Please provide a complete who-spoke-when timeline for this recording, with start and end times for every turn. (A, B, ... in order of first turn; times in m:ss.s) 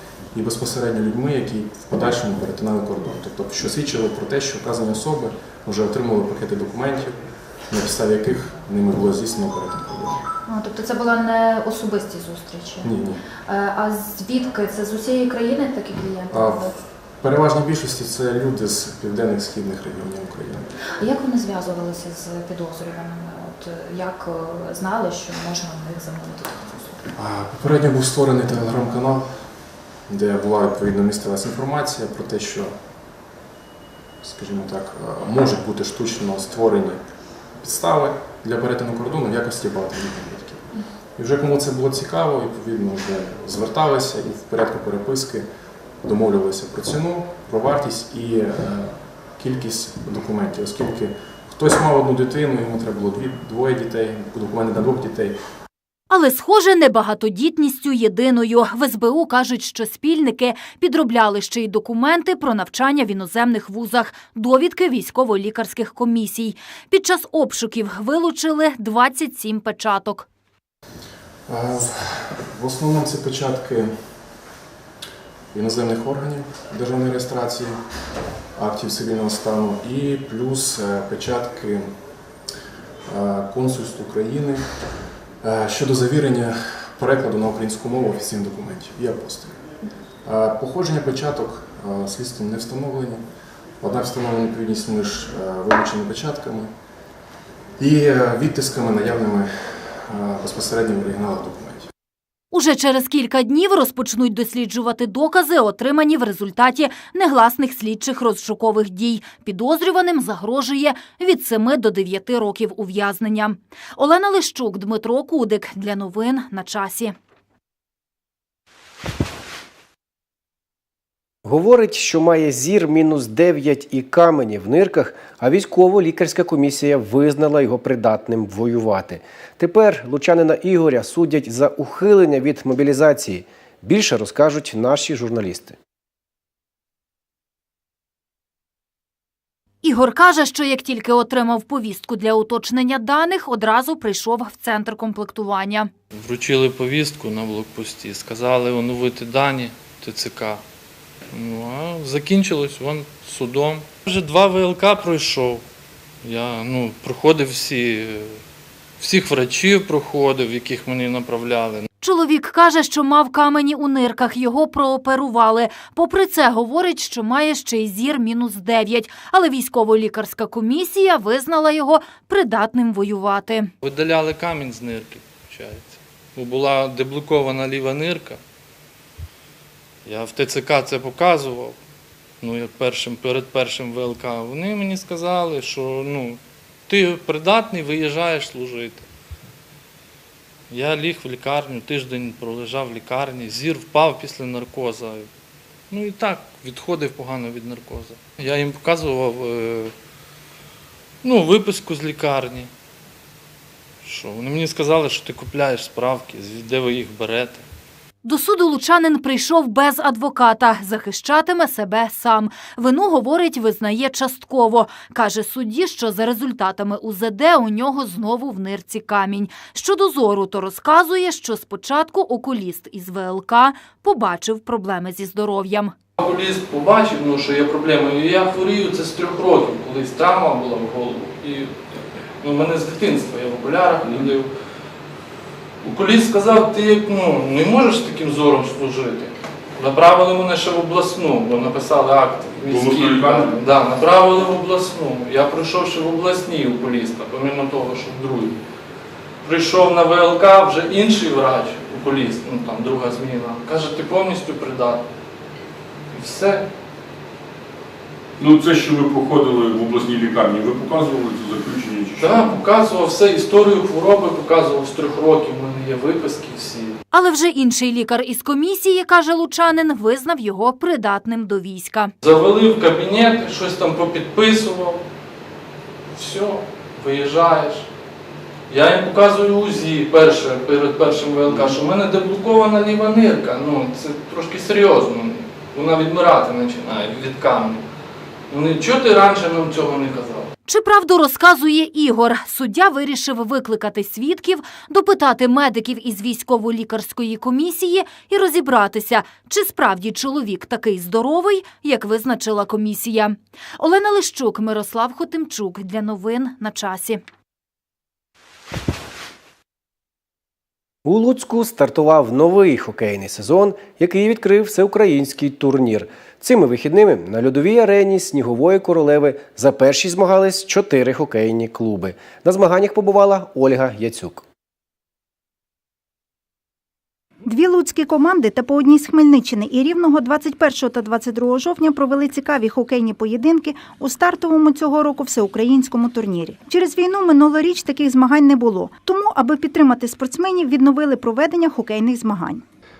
0:00.3-0:10.2 A
0:10.5-0:12.8 B
0:12.8-0:13.2 A
0:13.4-0:16.7 B
0:16.3-0:20.7 A
0:21.0-0:27.0 B
0:27.1-0:29.4 A
0:30.1-0:32.8 A
0:34.2-0:37.1 A
0:37.6-0:45.5 A
0:46.0-0:55.4 A
0:56.1-1:10.2 C
1:11.5-1:14.0 A
1:15.5-1:17.8 A
1:18.6-1:21.9 A
1:23.0-1:24.6 A
1:25.4-1:29.6 A
1:30.2-1:33.2 A
1:33.8-1:36.7 A
1:37.8-1:41.9 A
1:42.5-1:57.1 C
2:01.4-2:15.8 D
2:19.8-2:25.9 C
2:26.1-2:30.6 E
2:31.3-2:35.6 E
2:36.2-2:38.4 E
2:39.0-2:41.9 E
2:42.0-2:53.7 C
2:53.8-2:58.4 E
3:00.0-3:01.8 E
3:02.4-3:09.0 E
3:10.7-3:15.3 E
3:15.9-3:19.9 E
3:21.2-3:22.7 E
3:24.0-3:27.6 E
3:28.2-3:45.9 C
3:46.2-3:51.7 E
3:52.4-3:54.5 E
3:55.8-4:08.6 E
4:02.6-4:03.6 F
4:09.4-4:15.0 E
4:16.1-4:16.7 E
4:18.4-4:22.6 F
4:22.2-4:27.0 E
4:27.1-4:32.1 C
4:32.2-4:35.0 E
4:36.1-4:37.8 E
4:38.7-4:47.8 E
4:48.5-4:50.5 E
4:50.6-5:07.2 C
5:11.0-5:24.4 D
5:27.4-5:42.6 G